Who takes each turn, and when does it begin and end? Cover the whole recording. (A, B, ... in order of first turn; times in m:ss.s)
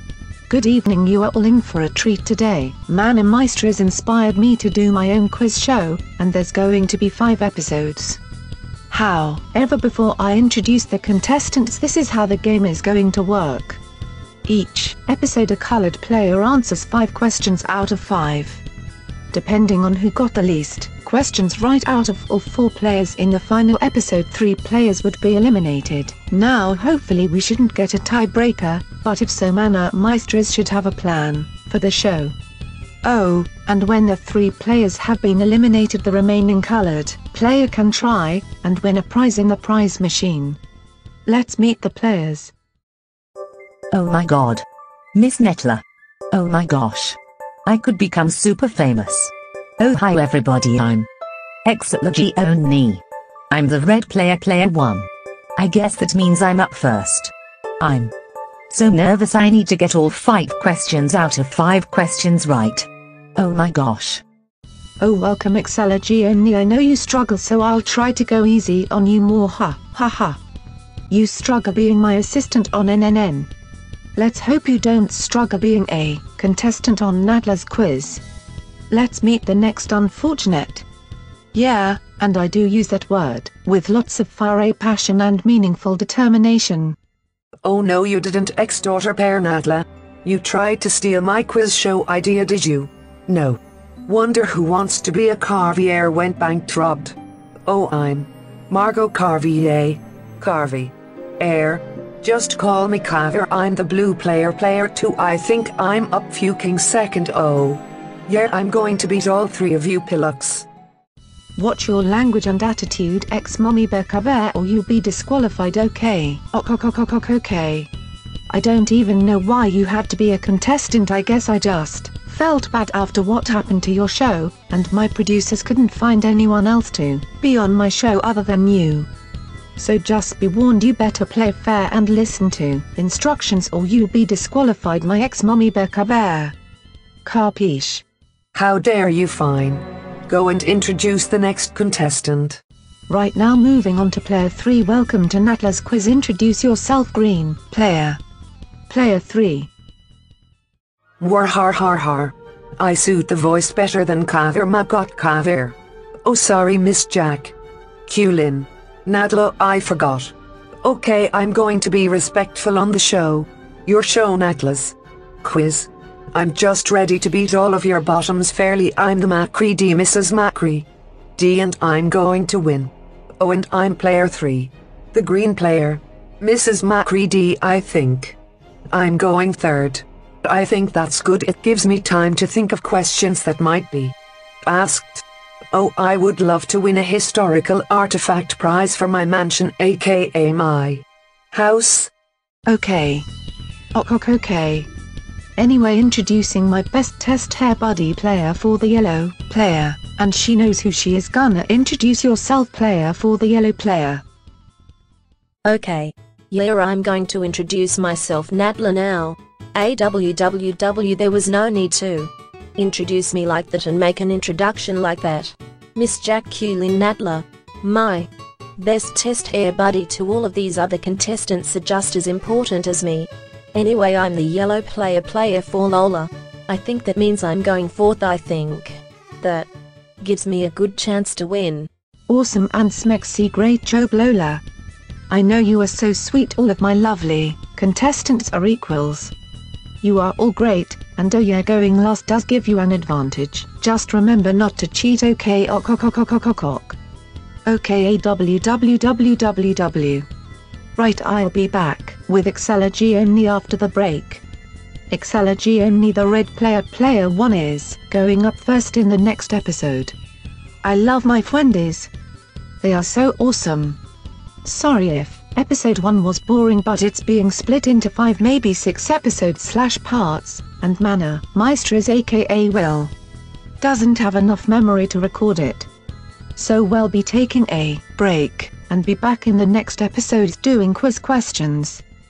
0:00.5-0:08.2 A
0:08.9-0:13.8 A
0:14.4-0:18.6 A
0:19.3-0:32.3 A
0:33.0-0:40.6 A
0:41.2-0:42.5 A
0:43.9-0:51.1 B
0:51.6-0:58.1 B
0:58.7-1:04.2 B
1:05.0-1:10.4 A
1:11.1-1:13.5 A
1:14.2-1:18.2 A
1:18.9-1:20.8 A
1:21.5-1:27.0 A
1:27.6-1:50.7 C
1:51.6-1:57.9 A
1:58.5-2:09.1 A
2:09.8-2:16.6 A
2:17.2-2:18.0 A
2:18.5-2:22.6 C
2:23.1-2:28.2 A
2:28.9-2:29.7 A
2:31.2-2:37.5 C
2:38.0-2:58.4 C
2:58.9-3:12.1 C
3:12.6-3:13.2 A
3:13.9-3:14.9 A
3:15.6-3:24.2 A
3:25.6-3:49.7 D
3:50.2-3:51.9 D
3:52.3-3:54.6 A
3:55.3-3:59.3 A
4:00.0-4:07.0 A
4:07.6-4:10.2 A
4:11.0-4:14.4 A
4:15.1-4:20.1 A
4:20.8-4:22.1 A
4:22.8-4:24.0 A
4:24.6-4:33.1 A
4:33.8-4:35.9 A
4:36.6-4:42.0 A